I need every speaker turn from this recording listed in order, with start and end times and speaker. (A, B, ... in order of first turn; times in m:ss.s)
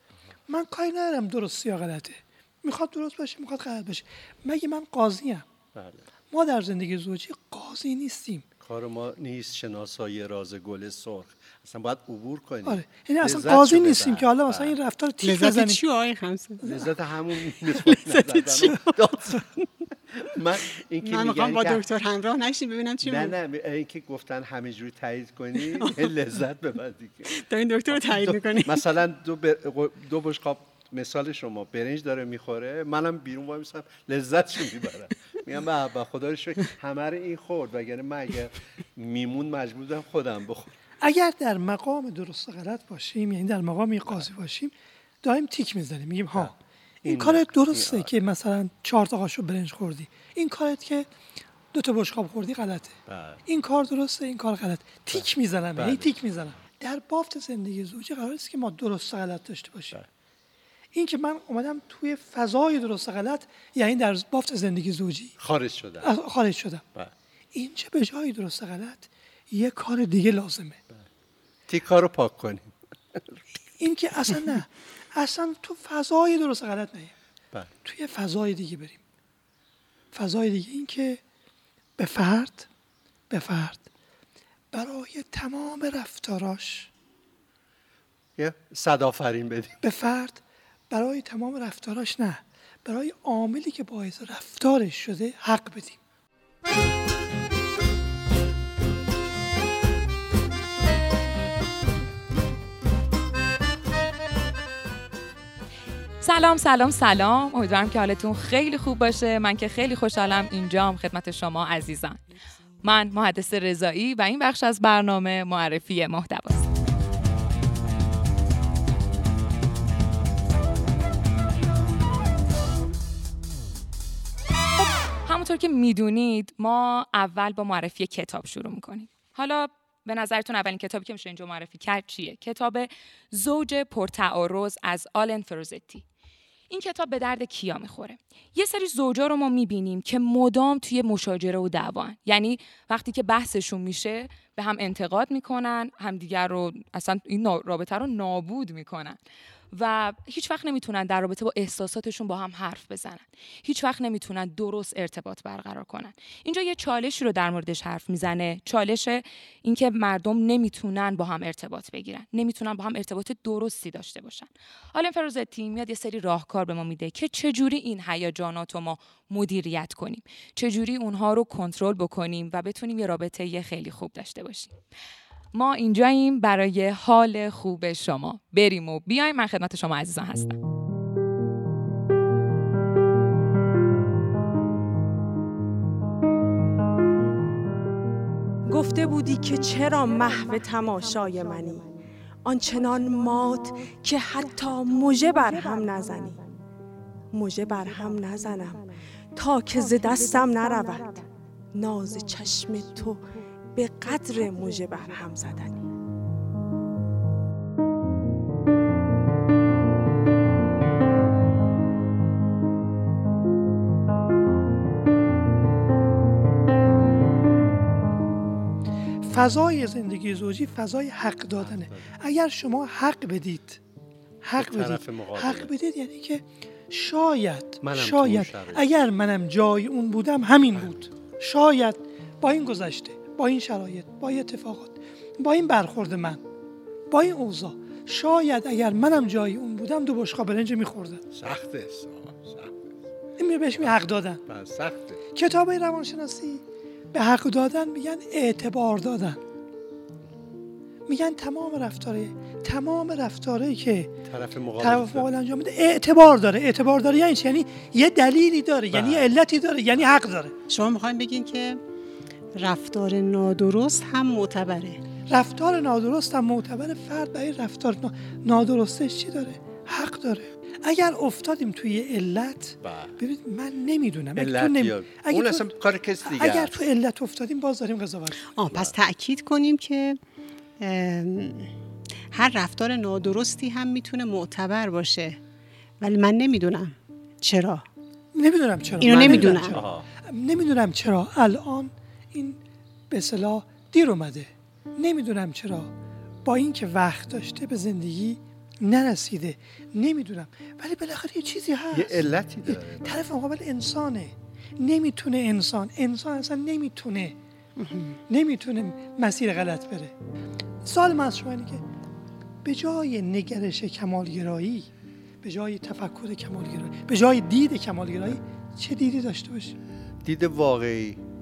0:00.5-0:05.4 A
0:05.7-0:06.0 B
0:06.3-0:08.4 A
0:08.6-0:14.7 B
0:12.6-0:15.8 A
0:15.2-0:16.8 C
0:16.6-0:19.4 B
0:17.5-0:18.9 C
0:20.2-0:21.8 B
0:21.0-0:23.3 C
0:23.0-0:27.3 B
0:25.7-0:26.1 C
0:27.3-0:28.8 C
0:27.9-0:40.7 B
0:41.0-0:46.5 A
0:47.0-0:48.1 B
0:47.0-0:51.1 A
0:51.7-1:00.0 A
0:53.1-0:53.4 B
0:55.1-0:56.1 B
1:00.9-1:05.3 A
1:05.4-1:06.1 B
1:06.0-1:06.8 A
1:07.5-1:10.8 A
1:11.7-1:13.4 B
1:13.8-1:17.1 A
1:17.8-1:19.0 A
1:20.1-1:21.2 A
1:22.0-1:22.7 A
1:23.3-1:23.8 A
1:24.7-1:26.9 A
1:28.4-1:29.8 B
1:29.8-1:36.0 A
1:46.2-1:52.2 D
1:52.8-1:56.7 D
2:04.8-2:16.0 D
2:16.7-2:29.2 D
2:29.7-2:54.8 D
2:55.5-3:00.6 D
3:08.7-3:11.9 E
3:12.4-3:16.4 E
3:17.3-3:25.9 E
3:39.2-3:43.8 A
3:41.6-3:42.1 B
3:44.4-3:56.4 A
3:44.6-3:45.7 B
3:47.8-3:48.9 B
3:57.1-4:01.2 A
4:01.3-4:02.9 B
4:03.4-4:04.4 A
4:03.7-4:05.2 B
4:05.3-4:06.6 A
4:07.1-4:09.4 A
4:11.1-4:14.1 A
4:14.2-4:15.3 B
4:14.8-4:20.5 A
4:18.9-4:19.3 B
4:20.7-4:21.8 C
4:22.6-4:25.0 C
4:25.3-4:38.5 A
4:32.8-4:33.2 B
4:34.4-4:36.8 B
4:38.5-4:40.2 C
4:40.8-4:41.7 C
4:42.3-4:45.4 C
4:46.0-4:47.8 C
4:48.3-4:55.9 A
4:49.0-4:49.8 C
4:49.0-4:50.0 B
4:56.4-5:07.4 A
5:01.9-5:03.1 B
5:07.8-5:08.2 C
5:08.3-5:10.1 A
5:10.8-5:11.8 A
5:12.6-5:14.9 A
5:15.4-5:19.8 A
5:20.2-5:21.2 B